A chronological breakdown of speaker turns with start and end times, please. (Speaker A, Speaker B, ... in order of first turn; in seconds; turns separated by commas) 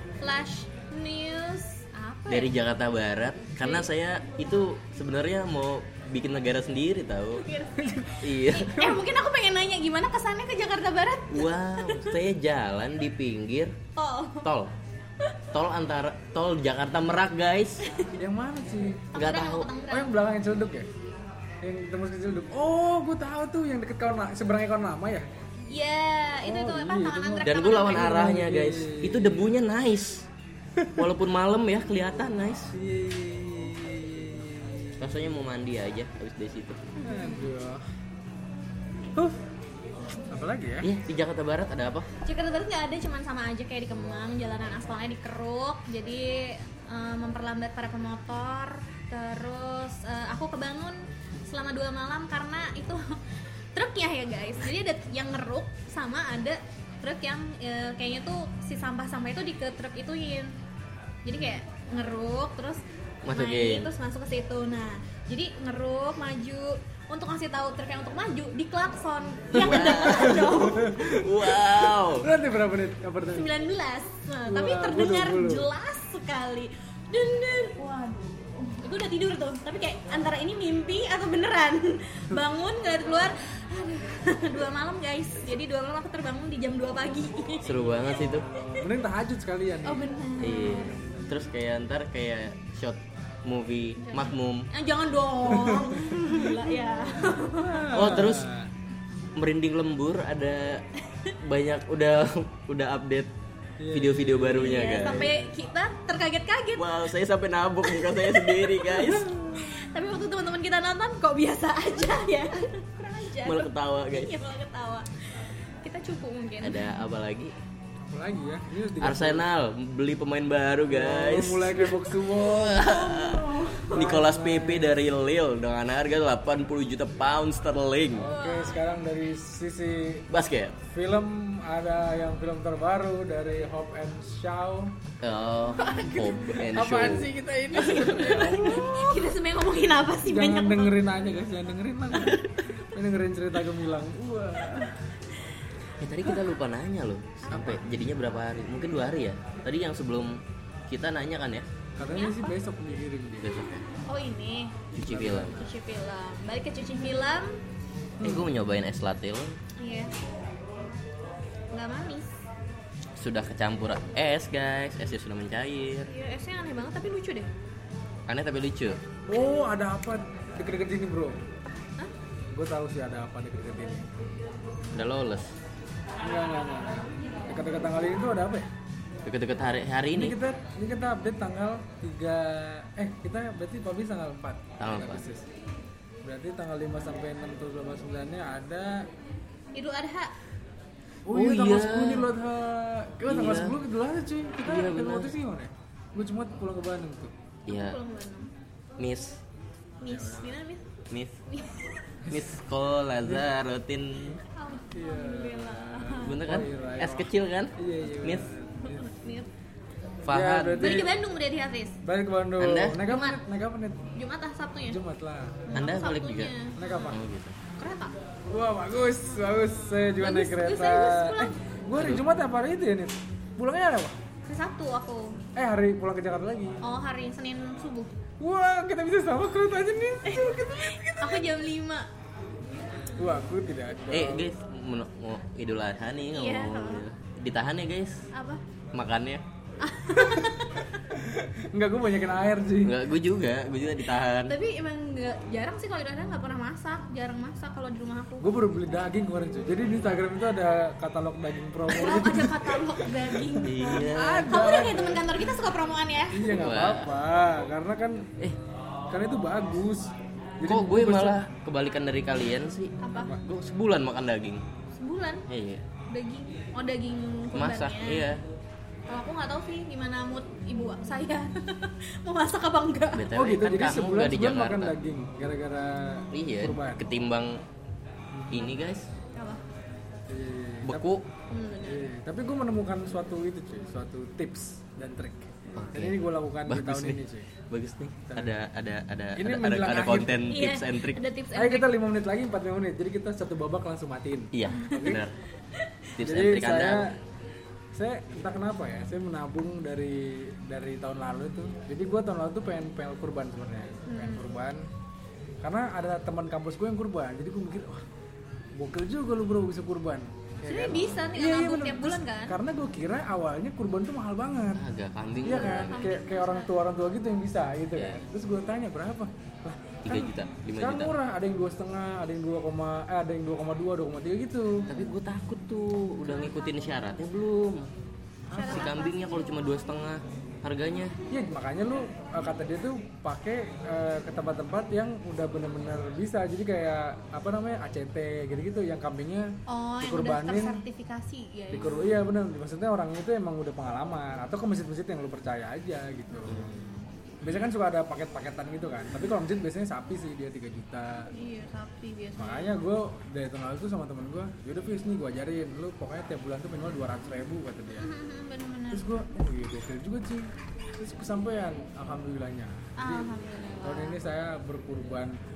Speaker A: 0.2-2.5, Speaker B: 2.3-7.5, Speaker A: 3.6-3.9, Speaker A: 7.4-12.1, Speaker C: 7.8-8.2, Speaker B: 8.2-8.9, Speaker B: 11.3-13.7, Speaker A: 13.9-14.5, Speaker B: 14.4-14.7, Speaker B: 15.5-17.9, Speaker C: 18.2-19.1, Speaker B: 19.1-19.7, Speaker A: 19.1-20.1, Speaker C: 19.9-20.9, Speaker C: 21.6-25.3, Speaker A: 25.7-28.3, Speaker C: 26.4-29.5, Speaker B: 27.4-30.3, Speaker B: 31.0-32.7, Speaker C: 32.7-35.2, Speaker B: 35.0-36.8, Speaker A: 37.0-37.4, Speaker C: 37.0-37.8, Speaker C: 40.3-40.9, Speaker B: 40.8-42.1, Speaker A: 42.2-53.2, Speaker A: 53.7-60.5, Speaker A: 61.2-71.0, Speaker B: 63.2-63.9, Speaker B: 69.5-72.3, Speaker C: 69.6-73.5, Speaker A: 73.3-87.8, Speaker C: 74.5-75.7, Speaker B: 87.6-88.5, Speaker C: 88.4-91.3, Speaker A: 89.8-91.0, Speaker B: 90.4-94.7, Speaker A: 94.0-98.0, Speaker C: 95.5-96.6, Speaker C: 97.5-98.7, Speaker B: 97.9-98.5, Speaker B: 99.3-100.8, Speaker B: 101.4-103.3, Speaker C: 103.8-105.5, Speaker B: 103.9-105.3, Speaker A: 104.6-107.1, Speaker B: 106.8-109.3, Speaker A: 107.8-116.9, Speaker C: 109.0-109.7, Speaker B: 113.4-114.3, Speaker B: 116.6-117.5, Speaker C: 118.0-119.4, Speaker B: 119.0-128.3, Speaker C: 120.9-122.9, Speaker A: 122.7-124.0, Speaker C: 123.9-125.0, Speaker C: 128.1-130.3, Speaker A: 128.3-128.8, Speaker B: 130.3-130.8, Speaker C: 130.8-134.9, Speaker B: 135.2-137.3, Speaker A: 135.8-136.7, Speaker C: 136.6-139.3, Speaker A: 137.7-141.1, Speaker B: 137.9-138.2, Speaker C: 140.2-145.0, Speaker B: 142.2-142.5, Speaker B: 146.0-151.7, Speaker C: 147.5-147.9, Speaker C: 152.0-153.5, Speaker A: 152.1-152.6, Speaker B: 153.4-153.8, Speaker A: 154.1-154.8, Speaker B: 154.9-155.7, Speaker C: 155.0-155.6, Speaker A: 155.4-157.6, Speaker C: 158.2-158.5, Speaker B: 158.2-159.6, Speaker A: 159.8-160.1, Speaker A: 161.7-162.4, Speaker B: 163.2-166.1, Speaker A: 166.1-167.5, Speaker B: 168.3-169.0, Speaker C: 169.3-171.4, Speaker C: 172.5-174.1, Speaker B: 174.9-175.5, Speaker C: 176.2-178.7, Speaker B: 179.2-180.4, Speaker C: 180.1-185.5, Speaker B: 184.8-185.2, Speaker C: 186.2-189.1, Speaker A: 189.7-190.3, Speaker C: 191.2-197.3, Speaker B: 191.3-192.3, Speaker B: 193.2-193.8, Speaker B: 194.6-195.3, Speaker B: 197.7-198.0, Speaker A: 197.7-198.5, Speaker B: 199.0-199.4, Speaker A: 200.0-202.1, Speaker C: 200.0-200.6, Speaker B: 201.1-201.4, Speaker B: 202.3-204.4, Speaker A: 204.5-206.5, Speaker C: 204.9-209.1, Speaker B: 206.2-208.4, Speaker A: 208.8-209.5, Speaker B: 210.2-211.1, Speaker C: 210.3-211.1, Speaker A: 210.8-212.0, Speaker C: 212.0-214.1, Speaker B: 212.6-213.0, Speaker A: 213.0-213.4, Speaker A: 214.1-215.0, Speaker C: 214.8-215.8, Speaker A: 215.7-217.1, Speaker B: 215.7-216.5, Speaker C: 216.8-217.2, Speaker B: 217.1-217.6, Speaker A: 217.8-218.1, Speaker C: 218.5-224.2, Speaker A: 220.1-221.5, Speaker B: 222.0-222.2, Speaker A: 224.4-225.4, Speaker C: 225.5-226.8, Speaker A: 226.8-228.2, Speaker C: 228.4-231.5, Speaker A: 230.2-232.1, Speaker C: 233.2-234.5, Speaker B: 234.1-238.3, Speaker A: 236.3-237.0, Speaker A: 238.3-238.6, Speaker B: 238.9-239.4, Speaker A: 239.8-240.8, Speaker C: 240.1-243.0, Speaker B: 242.8-244.6, Speaker A: 244.5-248.6, Speaker C: 248.4-252.8, Speaker A: 251.9-256.5, Speaker C: 253.4-255.3, Speaker B: 253.6-254.5, Speaker C: 256.3-258.3, Speaker B: 256.5-257.1, Speaker C: 259.1-261.4, Speaker B: 260.6-264.6, Speaker A: 263.0-263.4, Speaker C: 263.1-263.4, Speaker A: 264.9-265.4, Speaker B: 265.5-265.8, Speaker A: 266.1-268.3, Speaker B: 267.5-268.4, Speaker A: 269.1-273.3, Speaker B: 273.1-274.9, Speaker C: 273.3-277.0, Speaker B: 276.3-277.6, Speaker C: 278.3-278.7, Speaker B: 278.5-279.1, Speaker A: 279.3-279.6, Speaker C: 280.3-281.1, Speaker B: 280.8-281.2, Speaker A: 281.5-282.0, Speaker C: 281.8-287.5, Speaker B: 285.7-291.2, Speaker C: 288.2-288.6, Speaker C: 289.4-290.5, Speaker A: 290.5-292.0, Speaker C: 291.5-295.2, Speaker B: 294.5-295.3, Speaker B: 296.2-297.1, Speaker C: 296.2-297.2, Speaker C: 297.9-304.9, Speaker A: 304.1-304.5, Speaker C: 305.6-308.0, Speaker C: 308.8-314.8, Speaker A: 310.6-312.6, Speaker B: 314.7-316.1, Speaker A: 315.4-316.7, Speaker C: 315.4-324.9, Speaker B: 317.9-318.2, Speaker B: 320.0-321.1, Speaker A: 324.9-325.1, Speaker B: 324.9-327.9, Speaker C: 328.5-328.8, Speaker A: 328.5-329.7, Speaker B: 328.6-331.2, Speaker C: 331.3-340.8, Speaker A: 339.7-342.2, Speaker C: 341.7-346.7, Speaker A: 346.4-347.1, Speaker B: 346.4-346.7, Speaker C: 347.4-351.3, Speaker A: 351.3-352.8, Speaker C: 352.4-358.1, Speaker A: 358.0-359.1, Speaker C: 358.9-363.3, Speaker A: 363.0-364.2, Speaker C: 363.8-365.4